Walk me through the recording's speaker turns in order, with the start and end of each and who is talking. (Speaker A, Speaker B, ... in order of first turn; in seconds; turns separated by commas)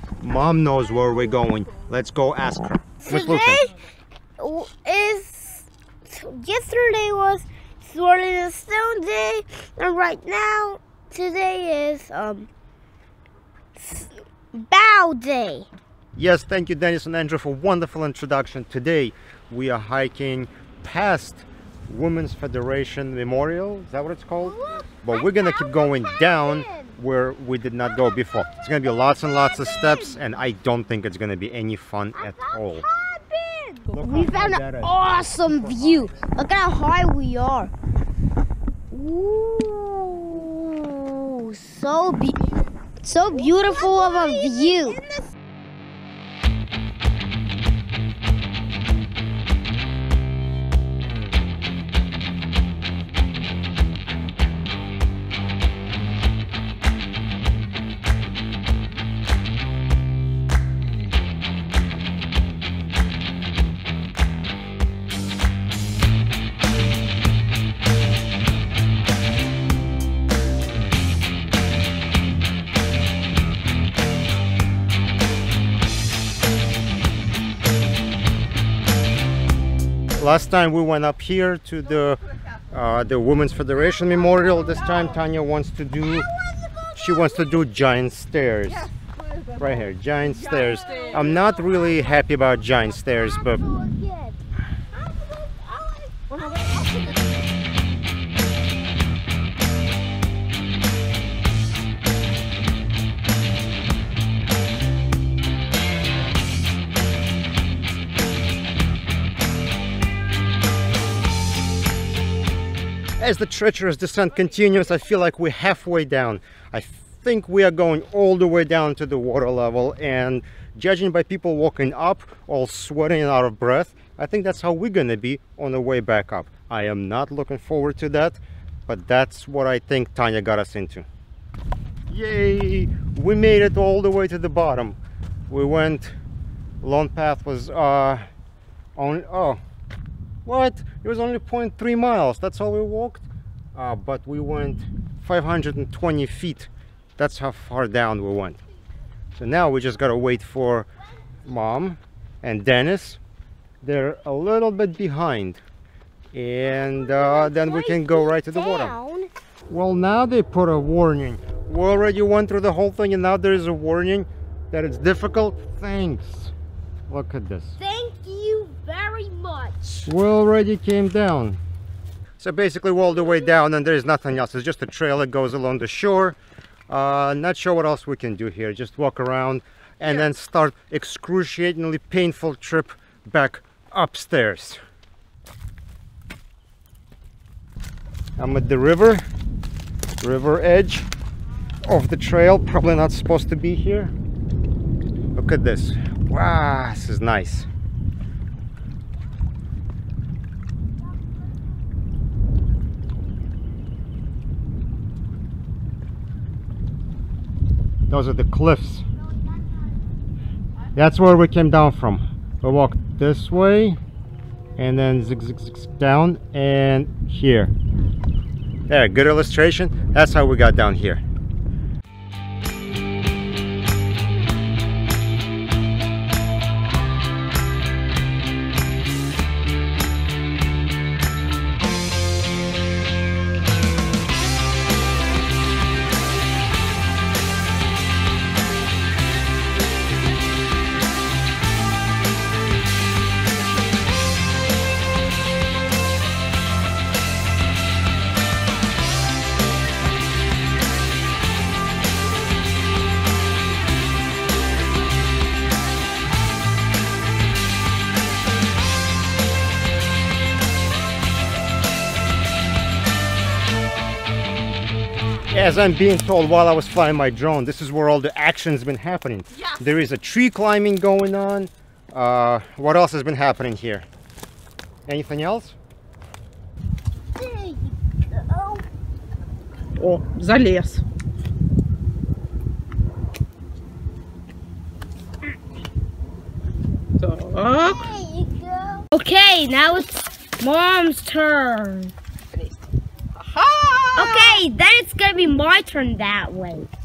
Speaker A: 0.2-3.7, Speaker B: 3.0-3.8, Speaker B: 4.4-12.5, Speaker B: 13.8-15.7, Speaker A: 16.1-32.9, Speaker B: 24.4-27.0, Speaker B: 29.0-30.2, Speaker B: 32.1-37.7, Speaker A: 33.9-36.3, Speaker B: 38.9-42.4, Speaker B: 43.0-45.0, Speaker A: 80.2-86.3, Speaker B: 86.0-87.7, Speaker A: 86.9-88.9, Speaker C: 88.8-89.8, Speaker A: 89.6-93.6, Speaker C: 90.5-91.4, Speaker B: 92.8-94.4, Speaker B: 94.9-96.8, Speaker C: 96.3-97.0, Speaker A: 113.2-131.1, Speaker A: 132.1-135.0, Speaker A: 135.5-136.1, Speaker A: 136.8-138.2, Speaker A: 138.9-139.6, Speaker A: 140.4-148.6, Speaker A: 149.4-150.9, Speaker A: 151.4-153.2, Speaker A: 153.8-155.6, Speaker A: 156.3-158.9, Speaker B: 156.8-159.3, Speaker A: 159.7-166.5, Speaker A: 167.1-167.8, Speaker B: 167.8-170.1, Speaker A: 170.0-171.6, Speaker A: 172.4-176.4, Speaker A: 176.9-184.8, Speaker A: 188.4-189.3, Speaker A: 190.2-191.1, Speaker A: 191.8-194.1, Speaker A: 195.3-197.7, Speaker A: 208.1-209.0, Speaker A: 210.9-214.0, Speaker A: 214.8-217.7, Speaker A: 218.9-221.2, Speaker A: 265.5-274.1, Speaker A: 275.1-275.8, Speaker B: 277.3-278.8, Speaker C: 280.0-281.0, Speaker C: 287.2-288.1, Speaker B: 287.8-292.1, Speaker C: 293.3-294.6, Speaker B: 294.1-296.9